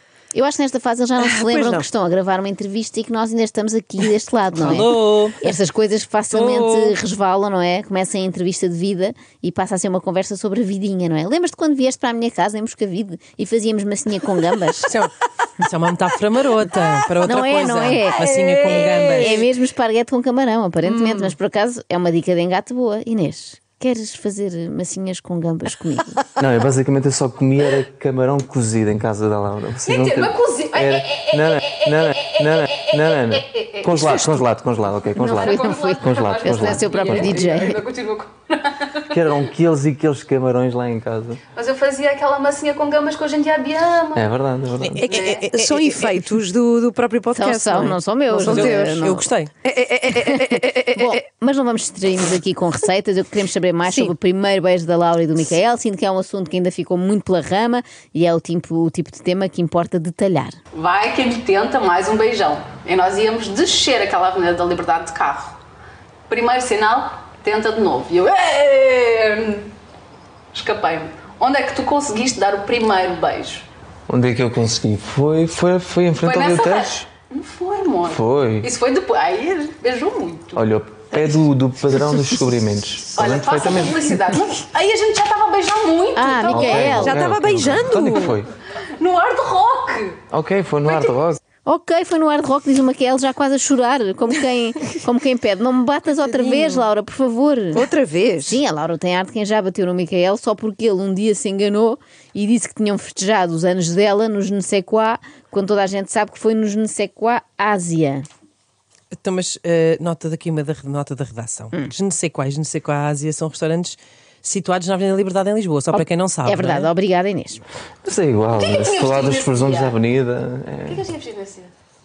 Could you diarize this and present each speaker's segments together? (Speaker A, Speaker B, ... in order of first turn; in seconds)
Speaker A: 0.3-14.9, 17.2-18.3, 19.1-26.2, 35.1-37.8, 47.3-49.3, 50.1-60.6, 86.1-87.2, 91.6-97.9, 98.4-108.2, 115.9-117.6
Speaker B: 1.2-1.8, 18.3-19.5, 20.9-21.3, 45.0-49.1, 49.7-51.2, 53.9-54.1, 86.8-88.4, 96.3-96.8, 97.7-98.6
Speaker C: 4.5-5.4, 6.3-7.0, 14.9-19.4, 44.8-46.2, 48.3-49.5, 109.2-116.9
Speaker D: 26.4-37.4, 39.1-41.4, 44.1-45.2, 74.1-77.1, 78.1-78.7, 80.5-84.1, 86.5-88.5, 90.3-91.4, 118.0-121.0
Speaker E: 29.8-34.4, 35.1-39.1, 41.5-44.3, 45.0-45.5, 60.7-65.6, 66.3-69.7, 70.5-73.7, 76.2-81.4, 83.1-86.9, 89.0-90.2, 90.9-91.2, 118.5-120.0, 120.8-121.7